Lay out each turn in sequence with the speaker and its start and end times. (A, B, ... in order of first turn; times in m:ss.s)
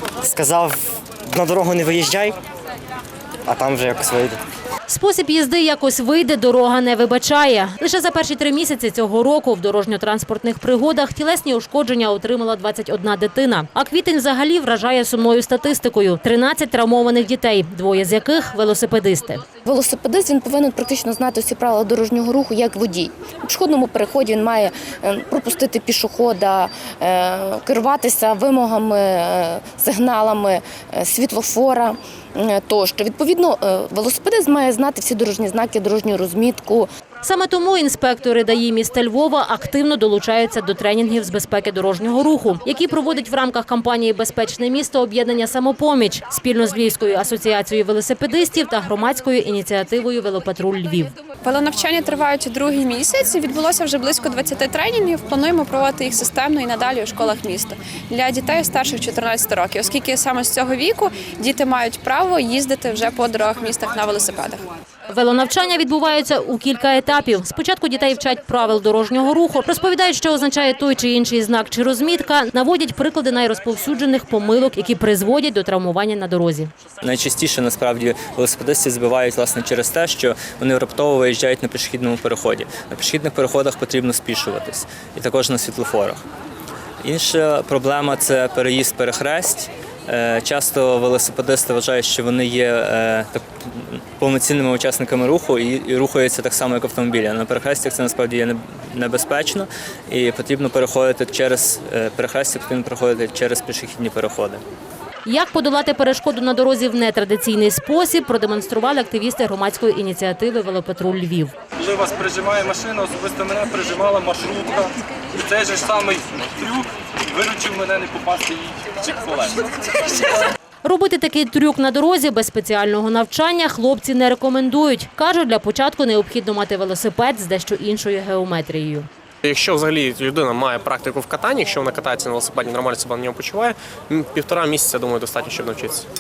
0:00.2-0:02.4 A
0:03.5-0:04.4 A
0:04.9-0:19.4 B
0:19.6-0:36.9 C
0:37.2-0:51.1 B
0:51.4-1:04.6 D
1:05.1-1:16.7 B
1:17.0-1:26.2 E
1:27.0-1:44.6 E
1:45.2-1:51.5 B
1:51.8-1:59.7 F
2:00.8-2:09.1 B
2:09.4-2:16.1 G